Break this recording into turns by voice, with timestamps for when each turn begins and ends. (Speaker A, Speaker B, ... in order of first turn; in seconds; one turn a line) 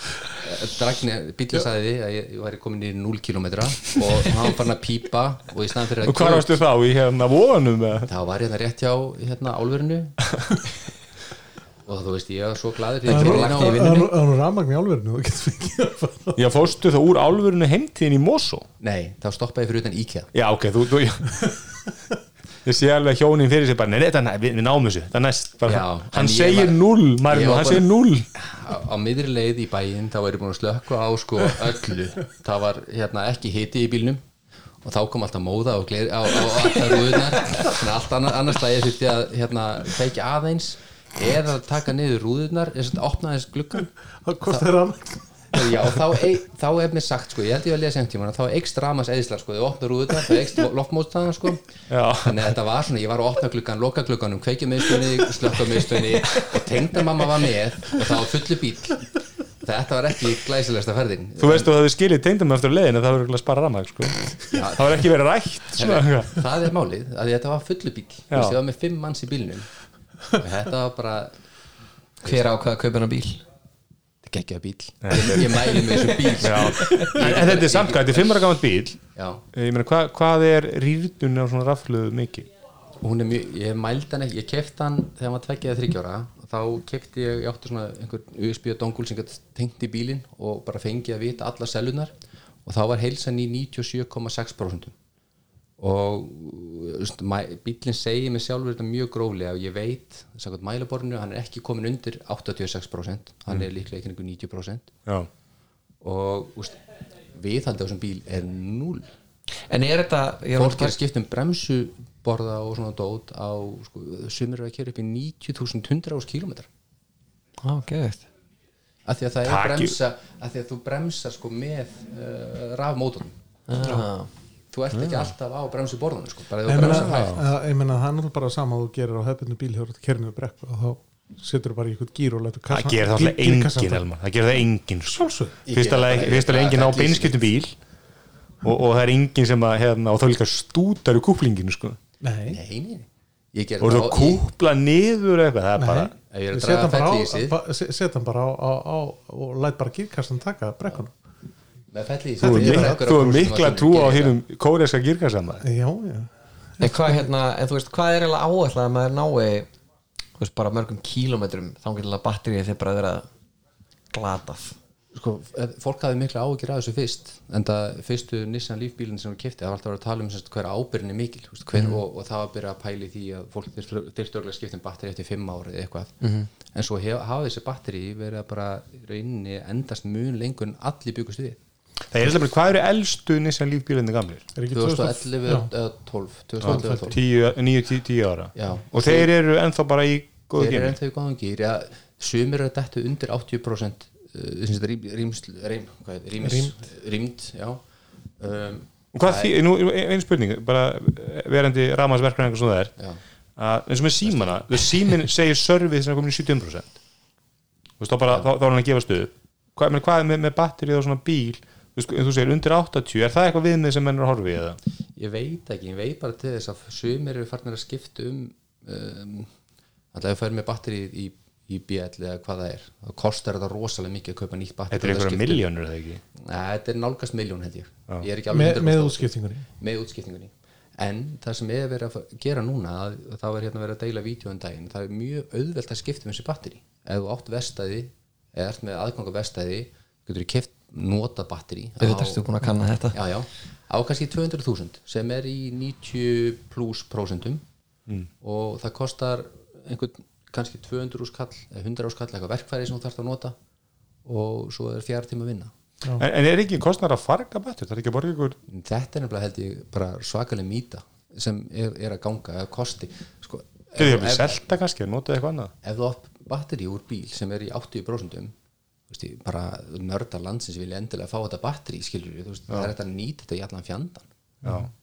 Speaker A: 0.2-6.6
Speaker B: 6.0-8.1
Speaker A: 8.0-10.3
Speaker A: 11.8-14.0
Speaker C: 13.0-14.1
Speaker D: 13.1-16.4
Speaker B: 16.4-18.7
Speaker A: 18.8-20.3
Speaker B: 20.3-21.6
Speaker B: 22.6-28.3
Speaker A: 25.6-34.2
Speaker A: 34.8-43.9
Speaker D: 44.2-45.2
Speaker A: 45.5-61.7
Speaker B: 51.9-52.5
Speaker B: 61.4-66.4
Speaker A: 64.5-65.0
Speaker A: 65.7-69.7
Speaker B: 68.3-68.6
Speaker A: 70.3-71.3
Speaker C: 72.2-73.4
Speaker A: 74.2-78.4
Speaker B: 75.0-75.6
Speaker B: 76.4-79.0
Speaker C: 76.5-77.1
Speaker A: 79.2-79.4
Speaker B: 79.5-82.5
Speaker A: 83.0-94.9
Speaker A: 95.8-104.9
Speaker A: 106.0-106.8
Speaker A: 107.3-109.0
Speaker C: 109.7-111.0
Speaker A: 110.6-116.7
Speaker C: 117.6-118.2
Speaker A: 119.0-123.3
Speaker B: 119.4-120.0
Speaker C: 123.7-124.3
Speaker A: 124.7-127.4
Speaker B: 124.9-125.3
Speaker D: 126.6-134.0
Speaker B: 126.8-127.4
Speaker B: 132.7-137.8
Speaker D: 135.1-135.6
Speaker A: 135.7-137.4
Speaker B: 138.6-142.0
Speaker D: 142.2-142.6
Speaker A: 142.5-144.4
Speaker B: 143.8-146.1
Speaker D: 145.8-151.1
Speaker A: 146.3-147.6
Speaker A: 151.9-154.3
Speaker B: 152.4-155.6
Speaker D: 152.4-153.0
Speaker D: 155.6-157.2
Speaker C: 156.8-159.7
Speaker C: 160.4-163.2
Speaker C: 164.1-164.8
Speaker A: 165.1-181.6
Speaker C: 171.7-172.0
Speaker C: 176.2-176.5
Speaker B: 182.1-184.5
Speaker D: 184.6-185.7
Speaker A: 184.7-187.2
Speaker B: 186.6-191.0
Speaker D: 186.6-187.1
Speaker A: 188.5-189.3
Speaker A: 190.6-197.8
Speaker D: 196.4-196.7
Speaker A: 198.4-199.5
Speaker B: 199.1-202.9
Speaker B: 203.6-206.9
Speaker A: 204.2-204.7
Speaker B: 208.0-214.8
Speaker A: 215.1-219.5
Speaker A: 220.1-225.6
Speaker B: 224.9-226.2
Speaker A: 226.3-242.4
Speaker D: 228.5-229.7
Speaker C: 242.0-243.2
Speaker A: 243.1-247.6
Speaker A: 248.4-253.6
Speaker A: 254.2-255.7
Speaker B: 256.2-258.6
Speaker A: 258.7-264.6
Speaker B: 263.9-265.7
Speaker A: 265.8-268.5
Speaker A: 269.1-274.3
Speaker D: 274.6-274.9
Speaker B: 274.6-274.9